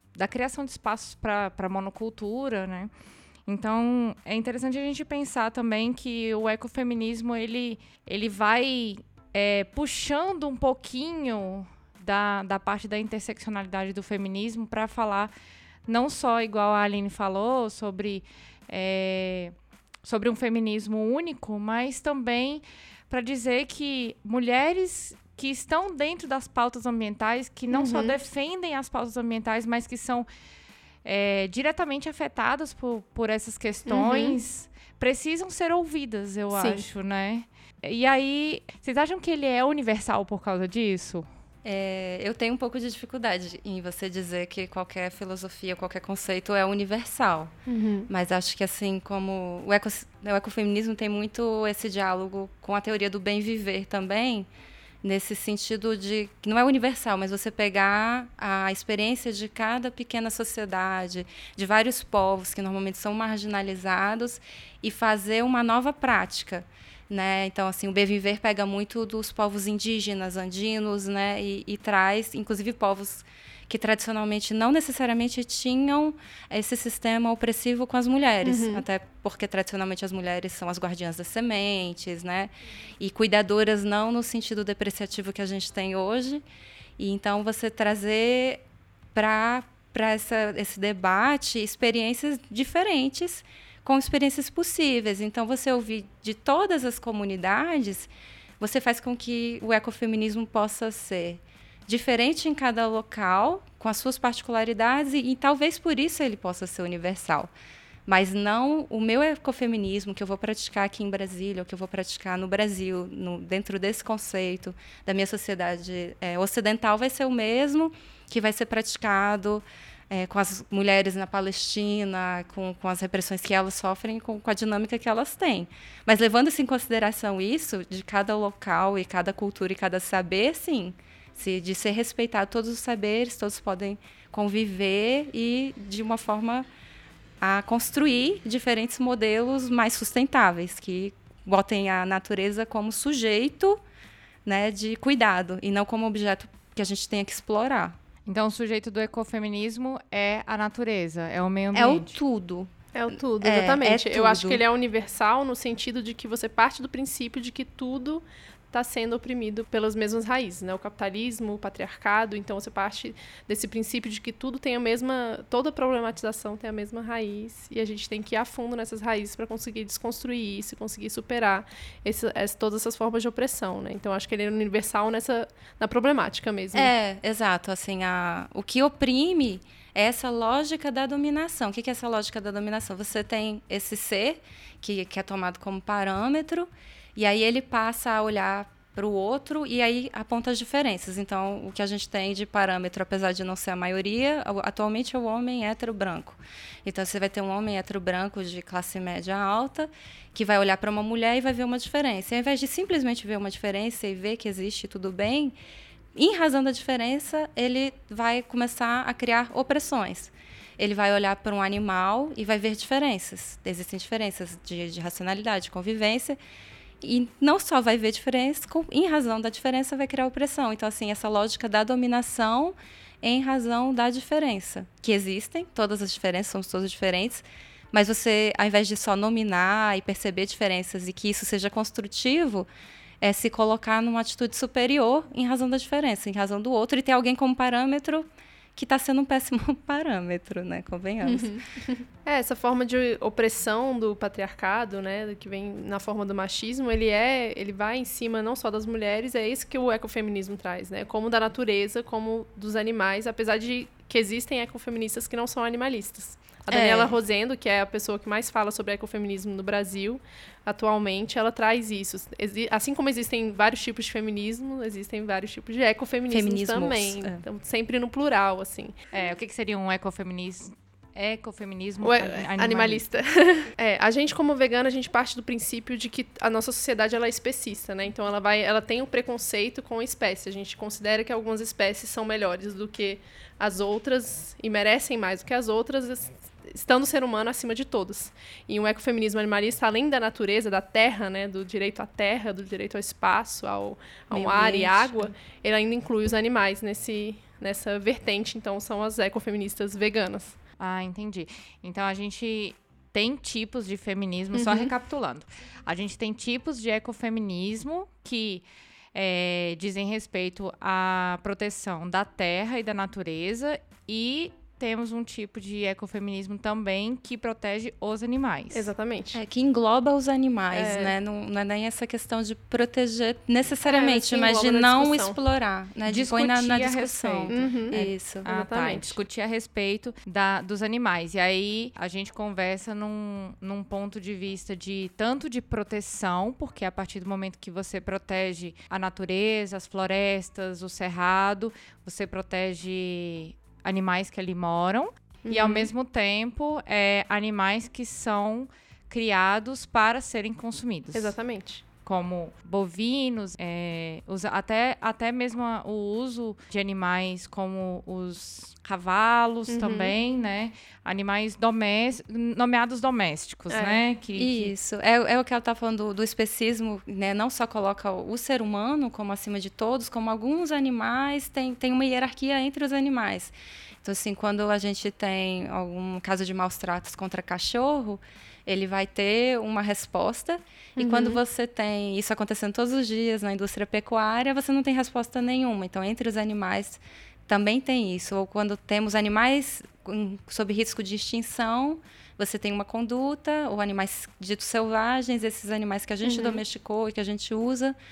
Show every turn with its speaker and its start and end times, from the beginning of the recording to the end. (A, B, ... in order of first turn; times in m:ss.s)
0:00.2-0:02.9 A
0:03.5-0:15.3 A
0:15.9-0:30.3 A
0:27.7-0:28.2 B
0:31.0-0:41.3 A
0:33.9-0:34.4 B
0:36.5-0:36.9 B
0:41.6-0:47.5 C
0:47.7-0:48.1 B
0:48.1-0:54.5 C
0:55.0-1:26.4 C
1:18.4-1:18.8 B
1:27.0-1:28.6 C
1:29.1-1:47.5 C
1:48.1-2:16.7 C
2:17.4-2:23.8 C
2:24.4-2:28.0 C
2:28.3-2:32.2 A
2:31.7-2:34.6 C
2:32.9-2:56.9 B
2:56.7-3:25.6 C
3:26.2-3:36.4 C
3:37.0-3:52.7 C
3:53.2-4:01.5 C
4:01.2-4:29.1 B
4:16.7-4:17.2 C
4:26.3-4:27.4 C
4:29.1-4:33.0 A
4:32.0-5:00.6 B
4:54.3-4:55.3 C
5:00.8-5:18.9 A
5:04.5-5:04.9 B
5:18.7-5:19.4 B
5:19.3-5:28.5 C
5:20.7-5:21.1 B
5:23.9-5:25.4 B
5:26.1-5:51.4 A
5:27.5-5:29.2 B
5:45.5-5:45.9 B
5:51.1-5:51.8 B
5:52.0-6:04.7 A
5:59.7-6:00.1 B
6:03.7-6:04.0 B
6:04.4-6:38.0 C
6:21.0-6:21.4 B
6:36.2-6:36.6 B